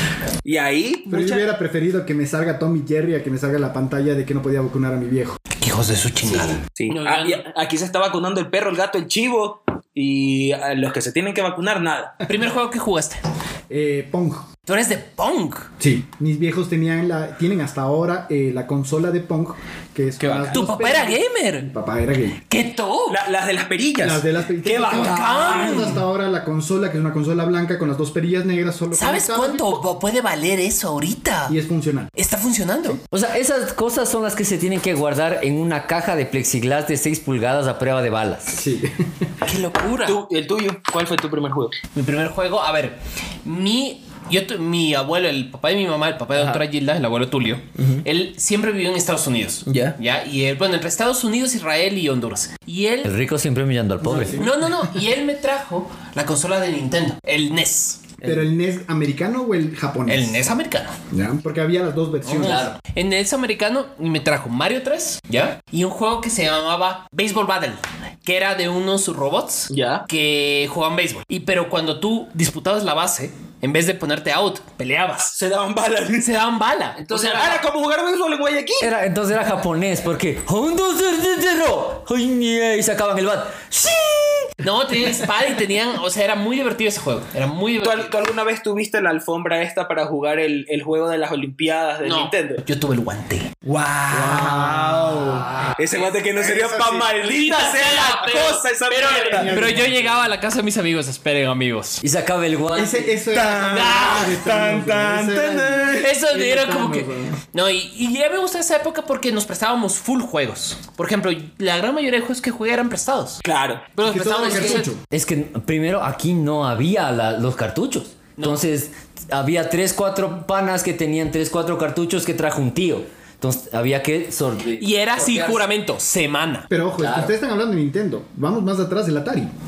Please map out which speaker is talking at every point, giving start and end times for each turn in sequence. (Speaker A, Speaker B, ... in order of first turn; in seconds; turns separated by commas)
Speaker A: 0.4-1.3, Speaker B: 1.1-5.4, Speaker C: 5.6-7.4, Speaker A: 6.8-12.2, Speaker C: 12.3-13.2, Speaker B: 13.7-14.5, Speaker C: 14.7-15.7, Speaker B: 15.8-22.4, Speaker A: 20.2-20.6, Speaker C: 20.5-21.7, Speaker C: 22.5-23.2, Speaker A: 23.1-26.0, Speaker B: 24.0-29.8, Speaker C: 24.9-26.0, Speaker C: 28.9-31.6, Speaker B: 31.5-32.1, Speaker C: 32.2-33.0, Speaker D: 33.1-38.6, Speaker B: 38.5-39.0, Speaker C: 39.5-40.2, Speaker A: 40.0-41.8, Speaker C: 42.0-53.1, Speaker A: 49.7-50.0, Speaker D: 53.0-54.4, Speaker B: 54.0-54.8, Speaker C: 54.4-58.2, Speaker B: 58.2-60.5, Speaker C: 60.1-61.0, Speaker B: 61.1-62.7, Speaker C: 62.2-75.3, Speaker D: 62.4-62.8, Speaker A: 69.7-70.1, Speaker A: 75.2-76.3, Speaker C: 76.2-77.6, Speaker A: 77.1-78.9, Speaker D: 78.8-84.5, Speaker C: 84.6-88.1, Speaker A: 87.8-92.6, Speaker C: 92.0-93.5, Speaker A: 93.7-99.6, Speaker B: 94.1-95.6, Speaker D: 94.3-95.7, Speaker C: 95.9-96.1, Speaker B: 96.4-97.1, Speaker C: 97.2-102.0, Speaker B: 99.1-100.3, Speaker D: 102.0-103.2, Speaker B: 102.7-107.4, Speaker A: 103.3-106.0, Speaker C: 103.6-104.5, Speaker C: 105.9-113.4, Speaker A: 113.4-113.9, Speaker C: 114.0-114.9, Speaker B: 114.0-115.0, Speaker D: 114.4-125.6, Speaker C: 118.4-118.6, Speaker C: 124.8-126.7, Speaker B: 126.7-129.5, Speaker D: 127.0-127.3